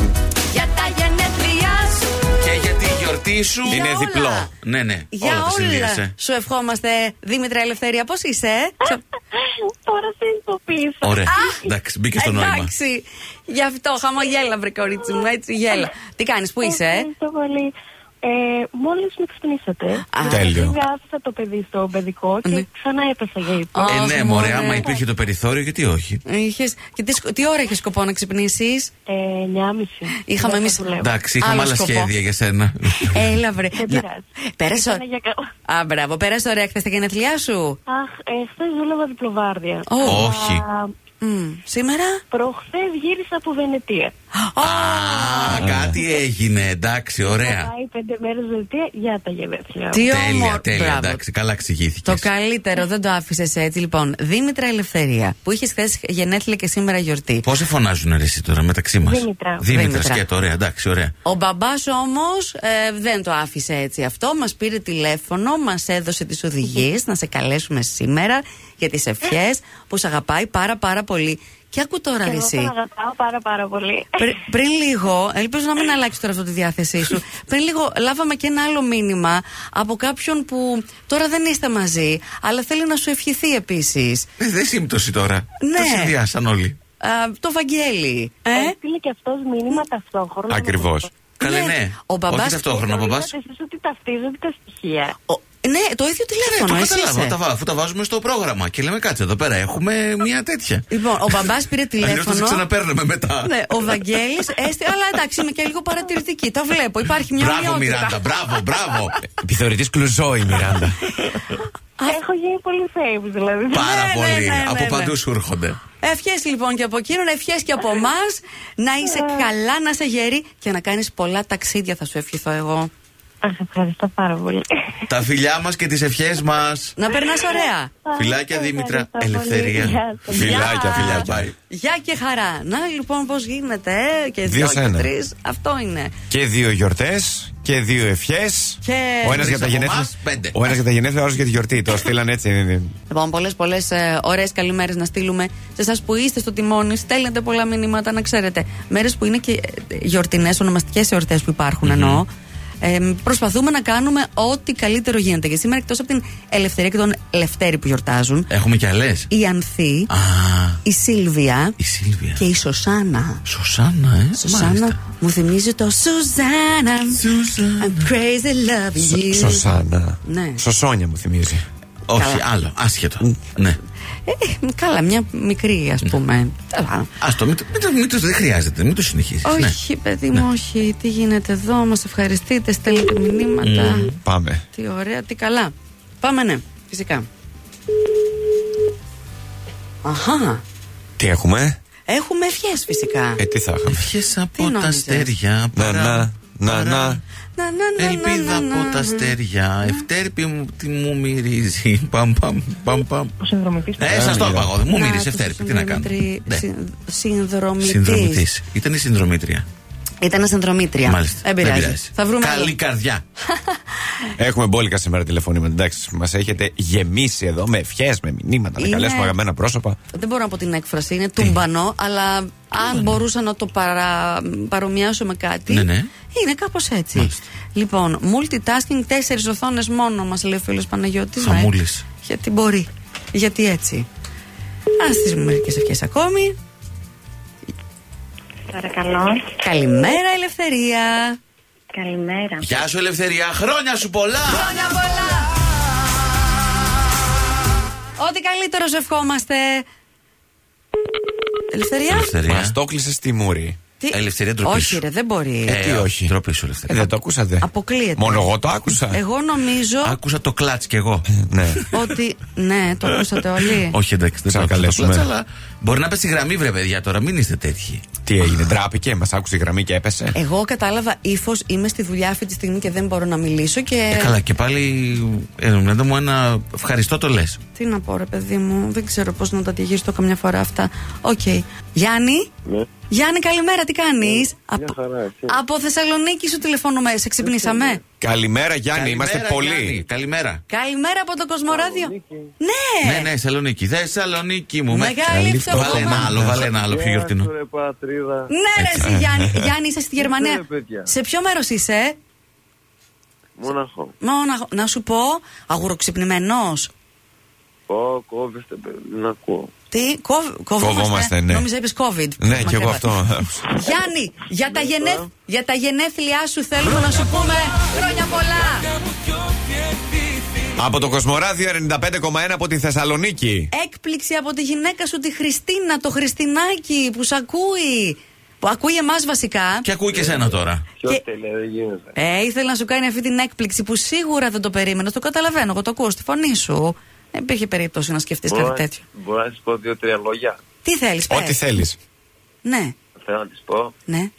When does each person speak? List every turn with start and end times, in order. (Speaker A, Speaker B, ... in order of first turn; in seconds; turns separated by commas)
Speaker A: 0.5-2.2, Speaker B: 2.4-3.8, Speaker A: 3.6-4.5, Speaker C: 3.7-4.5, Speaker B: 4.6-6.1, Speaker A: 5.1-9.0, Speaker D: 8.8-11.7, Speaker B: 11.0-12.7, Speaker A: 11.3-11.6, Speaker A: 12.2-17.1, Speaker D: 15.2-15.9, Speaker D: 16.6-25.0, Speaker A: 20.1-20.6, Speaker C: 20.3-20.8, Speaker A: 23.7-24.9, Speaker B: 23.9-26.2, Speaker A: 26.2-28.9, Speaker D: 29.1-31.1, Speaker A: 30.2-30.9, Speaker B: 31.0-33.4, Speaker A: 31.4-32.1, Speaker A: 33.0-34.0, Speaker D: 33.7-35.5, Speaker A: 34.5-35.0, Speaker A: 35.7-37.8, Speaker D: 37.9-40.9, Speaker A: 39.9-40.2, Speaker B: 40.0-40.6, Speaker A: 41.2-42.2, Speaker D: 42.3-44.1, Speaker A: 44.3-45.7, Speaker B: 44.6-47.7, Speaker C: 45.5-45.9, Speaker D: 47.2-50.1, Speaker A: 49.9-51.2, Speaker B: 50.0-52.3, Speaker A: 52.0-57.5, Speaker B: 57.4-61.1, Speaker D: 59.0-59.7, Speaker A: 59.7-60.2, Speaker A: 61.2-72.7, Speaker D: 72.2-74.4, Speaker A: 74.2-84.3, Speaker B: 84.4-86.8, Speaker A: 85.6-86.1, Speaker A: 87.0-88.7, Speaker D: 88.5-91.1, Speaker C: 90.5-91.1, Speaker A: 91.4-92.6, Speaker B: 91.4-93.3, Speaker D: 92.6-95.2, Speaker A: 95.3-97.4, Speaker B: 96.4-104.2, Speaker A: 100.9-102.6, Speaker A: 103.4-108.2, Speaker B: 107.3-109.2, Speaker C: 109.3-111.0, Speaker B: 110.7-111.4, Speaker D: 112.0-114.0, Speaker B: 113.7-115.8, Speaker A: 113.8-115.1, Speaker A: 116.0-122.9, Speaker D: 119.1-119.5, Speaker D: 123.4-125.2, Speaker B: 125.1-126.9, Speaker A: 127.0-127.9, Speaker D: 128.0-131.1, Speaker B: 128.1-131.5, Speaker C: 130.3-131.5, Speaker A: 130.4-136.1, Speaker C: 134.4-135.1, Speaker C: 136.3-142.9, Speaker A: 138.8-139.5, Speaker B: 139.2-140.7, Speaker A: 143.1-152.3, Speaker B: 151.8-152.2, Speaker A: 152.8-158.5, Speaker B: 158.5-159.3, Speaker A: 159.3-160.1, Speaker B: 160.1-160.8, Speaker A: 160.8-161.8, Speaker B: 161.8-162.4, Speaker A: 162.3-163.4, Speaker B: 163.4-165.0, Speaker A: 164.3-167.2, Speaker B: 167.1-168.1, Speaker A: 167.8-170.6, Speaker C: 169.0-171.6, Speaker B: 172.1-173.8, Speaker A: 172.1-172.4, Speaker A: 174.2-177.1, Speaker B: 177.2-179.8, Speaker A: 179.4-184.1, Speaker B: 183.6-184.2, Speaker C: 184.2-184.6, Speaker A: 184.7-187.3, Speaker A: 190.0-190.6, Speaker C: 191.2-191.8, Speaker A: 192.1-193.4, Speaker C: 193.4-194.1, Speaker B: 193.9-197.2, Speaker A: 194.6-195.3, Speaker C: 195.7-197.2, Speaker A: 197.6-200.0, Speaker B: 197.9-203.3, Speaker D: 203.4-204.1, Speaker B: 204.0-206.6, Speaker C: 204.1-204.7, Speaker A: 204.9-208.4, Speaker B: 207.8-209.7, Speaker A: 210.2-212.8, Speaker B: 211.0-213.2, Speaker A: 213.5-213.8, Speaker C: 214.4-220.0, Speaker A: 218.8-219.3, Speaker A: 220.1-231.7, Speaker B: 222.7-223.2, Speaker B: 225.7-226.1, Speaker B: 227.1-227.4, Speaker B: 231.4-232.0, Speaker A: 232.2-234.1, Speaker A: 235.0-236.6, Speaker D: 238.7-239.6, Speaker A: 239.6-241.4, Speaker D: 241.9-242.8, Speaker B: 242.6-244.8, Speaker A: 244.4-245.5, Speaker A: 248.2-249.8, Speaker A: 251.7-252.3, Speaker B: 252.1-252.8, Speaker C: 252.4-253.8, Speaker A: 254.0-255.8, Speaker B: 254.1-255.0, Speaker C: 255.7-256.3, Speaker B: 255.7-257.1, Speaker C: 256.9-259.2, Speaker A: 257.6-258.5, Speaker A: 259.1-260.2, Speaker B: 260.0-262.1, Speaker C: 261.3-261.8, Speaker A: 261.9-264.0, Speaker B: 263.7-268.1, Speaker C: 264.5-265.3, Speaker C: 268.2-270.4, Speaker A: 270.3-274.3, Speaker B: 274.1-277.6, Speaker A: 277.7-282.5, Speaker A: 283.1-284.9, Speaker E: 284.2-285.6, Speaker A: 285.5-288.0, Speaker E: 287.4-288.0, Speaker C: 288.2-290.0, Speaker B: 288.9-290.6, Speaker A: 290.7-293.3, Speaker E: 291.7-292.5, Speaker B: 293.0-297.5, Speaker A: 294.9-296.4, Speaker C: 295.3-296.7, Speaker E: 296.8-298.5, Speaker A: 298.5-302.1, Speaker B: 298.8-299.1, Speaker C: 299.0-299.7, Speaker E: 300.2-301.1, Speaker E: 303.6-304.1, Speaker A: 304.2-306.9, Speaker E: 307.9-309.7, Speaker A: 309.9-318.9, Speaker C: 310.8-311.6, Speaker C: 312.4-313.6, Speaker E: 314.6-315.2, Speaker C: 320.8-323.7, Speaker A: 323.7-329.9, Speaker B: 329.8-330.9, Speaker E: 330.1-332.1, Speaker A: 332.1-339.0, Speaker E: 338.5-340.6, Speaker A: 340.8-341.6, Speaker C: 341.3-342.0, Speaker A: 342.6-342.9, Speaker E: 343.2-343.9